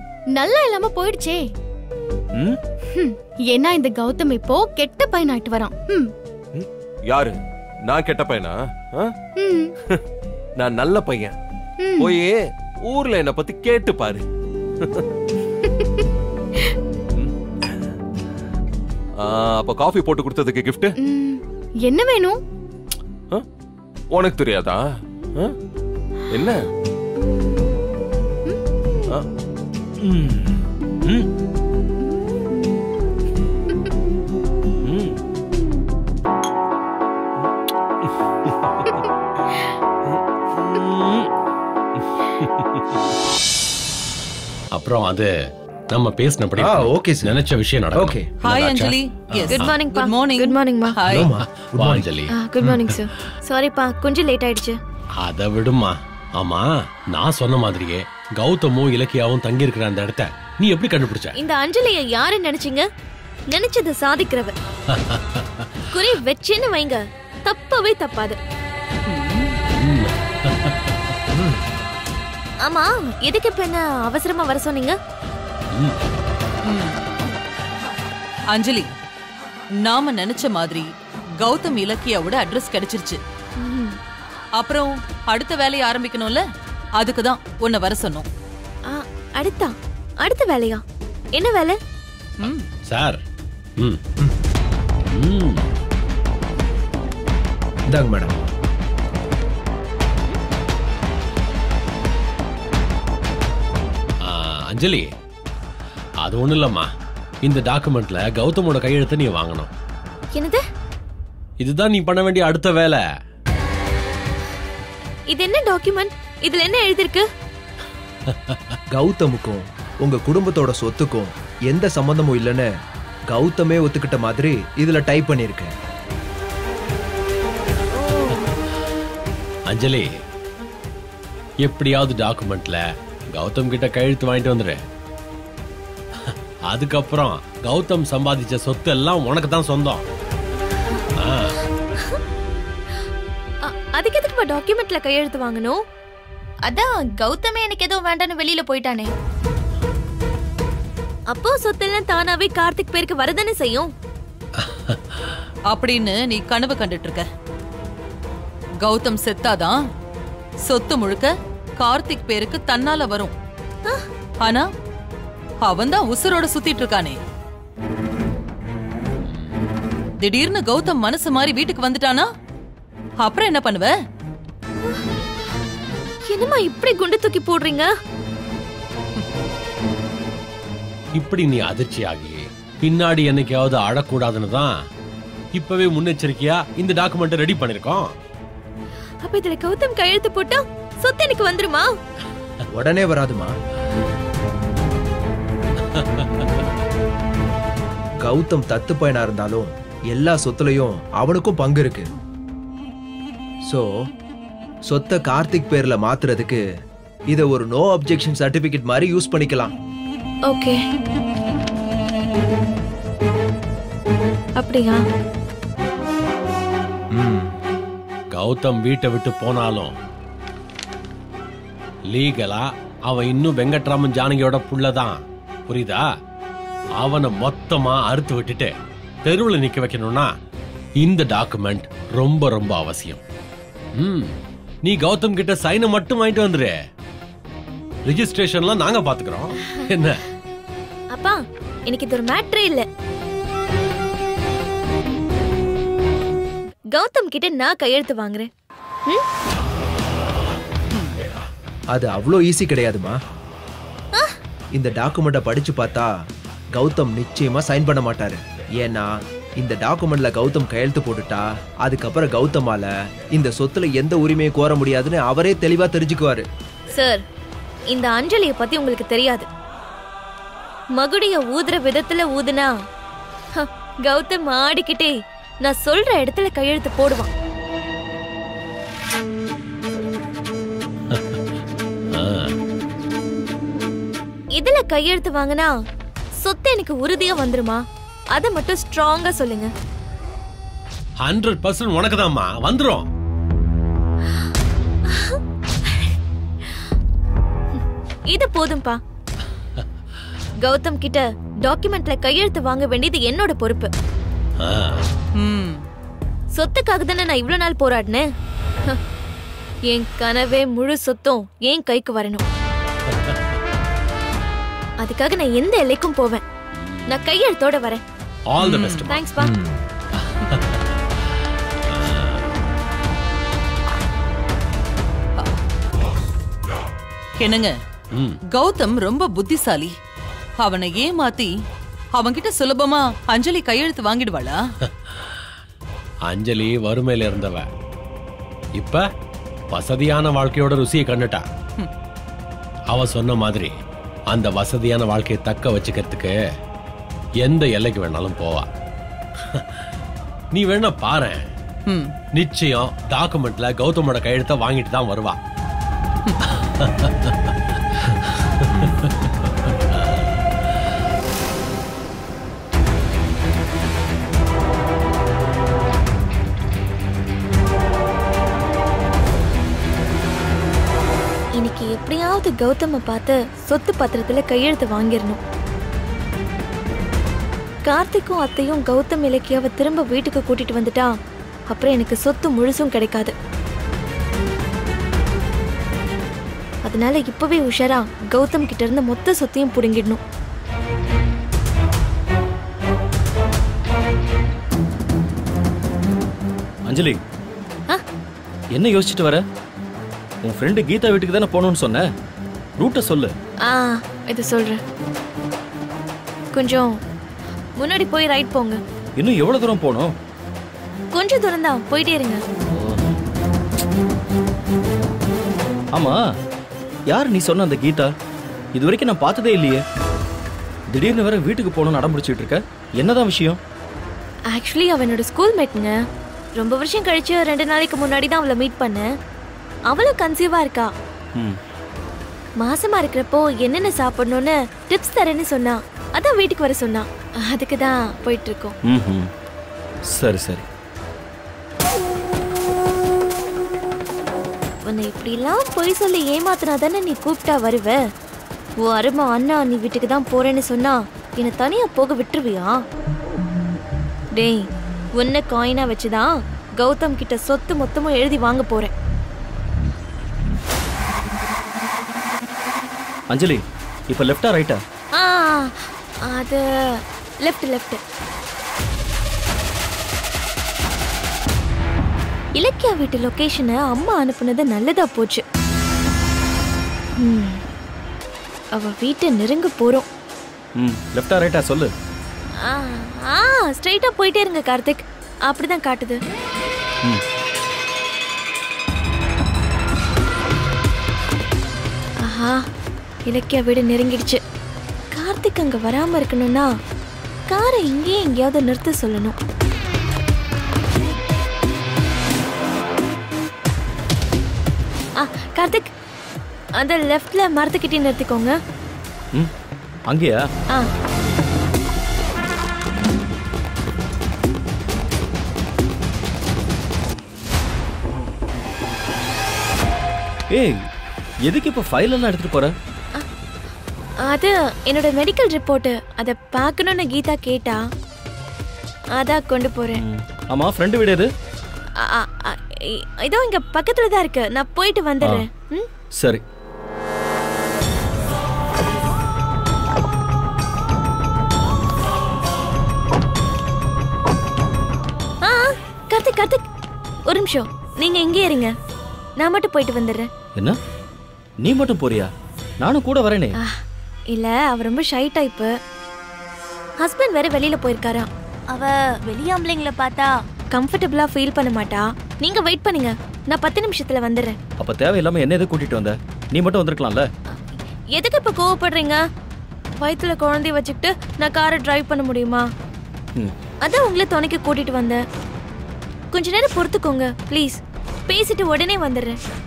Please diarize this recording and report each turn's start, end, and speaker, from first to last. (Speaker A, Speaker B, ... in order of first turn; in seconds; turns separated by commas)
Speaker A: 0.4-1.4, Speaker A: 3.0-6.1, Speaker B: 6.5-7.3, Speaker B: 7.9-9.1, Speaker A: 9.4-9.7, Speaker B: 10.6-11.3, Speaker A: 11.8-12.2, Speaker B: 12.0-14.2, Speaker A: 15.7-16.0, Speaker B: 17.1-17.8, Speaker B: 19.2-20.9, Speaker A: 21.0-22.4, Speaker B: 24.1-24.8, Speaker B: 26.3-26.7, Speaker B: 30.0-31.3, Speaker B: 34.9-35.2, Speaker B: 40.1-41.3, Speaker C: 44.7-45.3, Speaker C: 45.9-49.0, Speaker D: 46.6-47.3, Speaker D: 48.0-48.3, Speaker E: 48.4-51.3, Speaker C: 49.5-49.8, Speaker F: 49.5-50.9, Speaker D: 51.1-52.1, Speaker C: 51.6-52.3, Speaker F: 52.3-54.8, Speaker C: 55.2-61.3, Speaker F: 61.4-62.9, Speaker F: 63.5-64.5, Speaker C: 64.9-65.7, Speaker F: 65.9-68.4, Speaker E: 69.1-69.6, Speaker C: 69.8-71.6, Speaker F: 72.6-75.0, Speaker E: 76.7-77.0, Speaker E: 78.5-78.9, Speaker E: 79.8-80.9, Speaker E: 81.4-83.2, Speaker F: 83.6-84.0, Speaker E: 84.6-86.4, Speaker E: 87.0-88.3, Speaker F: 88.9-89.7, Speaker F: 90.2-90.8, Speaker F: 91.3-91.8, Speaker C: 92.9-93.2, Speaker C: 95.1-95.6, Speaker D: 97.9-98.3, Speaker C: 104.2-105.1, Speaker C: 106.2-106.9, Speaker C: 107.4-109.7, Speaker F: 110.3-110.6, Speaker C: 111.6-113.0, Speaker F: 115.3-117.2, Speaker C: 118.3-118.8, Speaker D: 118.9-122.7, Speaker D: 123.3-125.7, Speaker C: 129.7-130.1, Speaker C: 131.6-134.8, Speaker C: 136.3-140.0, Speaker C: 141.2-141.6, Speaker F: 143.6-145.8, Speaker F: 146.7-149.1, Speaker F: 151.3-153.9, Speaker C: 154.6-155.0, Speaker E: 155.7-157.2, Speaker E: 158.8-159.8, Speaker E: 160.7-163.3, Speaker E: 165.6-167.2, Speaker E: 170.2-172.3, Speaker E: 173.2-173.9, Speaker F: 176.3-177.9, Speaker C: 181.2-184.7, Speaker C: 185.6-188.1, Speaker F: 189.2-191.9, Speaker D: 192.7-193.5, Speaker C: 195.9-196.5, Speaker D: 198.2-202.1, Speaker D: 204.9-206.6, Speaker D: 207.3-209.7, Speaker F: 210.5-210.8, Speaker F: 214.6-215.0, Speaker D: 217.2-217.5, Speaker C: 218.3-219.9, Speaker C: 222.1-226.0, Speaker C: 227.0-228.7, Speaker C: 229.2-230.3, Speaker C: 231.0-233.2, Speaker C: 234.0-234.3, Speaker C: 234.8-236.7, Speaker C: 238.1-240.2, Speaker F: 241.1-242.8, Speaker F: 246.9-248.5, Speaker D: 251.9-253.2, Speaker D: 254.7-256.1, Speaker D: 256.7-266.4, Speaker F: 266.9-267.2, Speaker F: 267.9-269.5, Speaker F: 271.0-272.7, Speaker F: 273.6-277.3, Speaker C: 281.1-281.4, Speaker C: 282.2-282.5, Speaker F: 284.6-285.7, Speaker F: 286.4-287.8, Speaker F: 288.3-289.7, Speaker C: 291.2-293.1, Speaker F: 295.1-295.4, Speaker F: 298.3-299.0, Speaker F: 300.6-303.9, Speaker C: 304.6-305.0, Speaker E: 305.4-305.8, Speaker F: 306.5-308.2, Speaker F: 309.9-312.4, Speaker F: 315.0-316.4, Speaker C: 316.8-317.1, Speaker F: 317.1-318.0, Speaker C: 318.5-319.3, Speaker E: 318.6-319.0, Speaker F: 319.1-319.5, Speaker D: 319.4-319.8, Speaker C: 320.1-320.9, Speaker C: 321.9-322.4, Speaker E: 327.4-327.7, Speaker E: 328.6-329.9, Speaker E: 330.6-331.5, Speaker E: 332.1-334.6, Speaker C: 335.1-335.4, Speaker C: 336.3-337.7, Speaker C: 338.8-339.1, Speaker C: 339.7-341.4, Speaker C: 342.9-343.7, Speaker C: 344.3-346.3, Speaker C: 347.4-348.7, Speaker C: 349.5-349.8, Speaker C: 350.5-351.5, Speaker C: 352.4-355.4, Speaker C: 356.4-357.6, Speaker C: 358.1-360.5, Speaker F: 371.6-375.4, Speaker F: 377.9-381.1, Speaker F: 381.7-383.3, Speaker F: 386.9-390.2, Speaker G: 396.9-397.2, Speaker G: 398.7-399.4, Speaker G: 400.4-402.1, Speaker G: 402.8-403.3, Speaker F: 403.6-404.8, Speaker F: 406.5-406.9, Speaker F: 407.8-408.8, Speaker G: 409.2-410.1, Speaker F: 411.1-412.4, Speaker G: 412.7-413.1, Speaker G: 417.1-418.1, Speaker G: 418.7-419.8, Speaker G: 420.9-423.6, Speaker F: 424.5-425.9, Speaker F: 426.6-429.1, Speaker F: 429.9-430.9, Speaker F: 432.6-438.8, Speaker G: 438.9-439.3, Speaker G: 440.1-440.7, Speaker F: 444.9-448.0, Speaker F: 448.8-452.8, Speaker F: 454.4-454.6, Speaker F: 455.2-458.9, Speaker G: 463.3-464.8, Speaker F: 465.1-466.6, Speaker F: 467.4-468.0, Speaker F: 472.6-475.4, Speaker F: 477.2-477.6, Speaker F: 478.8-480.1, Speaker G: 480.8-481.9, Speaker F: 482.6-486.2, Speaker F: 492.2-492.6, Speaker F: 493.3-494.4, Speaker F: 495.1-496.7, Speaker F: 497.5-499.4, Speaker F: 505.2-505.9, Speaker F: 506.8-508.6, Speaker G: 510.1-510.4, Speaker G: 520.5-520.8, Speaker G: 521.5-522.7, Speaker F: 524.3-527.8, Speaker F: 529.2-530.0, Speaker G: 530.0-531.3, Speaker F: 532.0-535.9, Speaker G: 536.2-536.4, Speaker F: 545.4-546.6, Speaker F: 547.3-548.7, Speaker F: 549.4-550.3, Speaker G: 551.6-552.3, Speaker G: 552.8-553.6, Speaker F: 553.6-555.7, Speaker F: 557.0-564.5, Speaker G: 564.8-567.3, Speaker F: 568.1-569.2, Speaker F: 570.0-572.7, Speaker F: 573.8-575.2, Speaker F: 576.3-579.4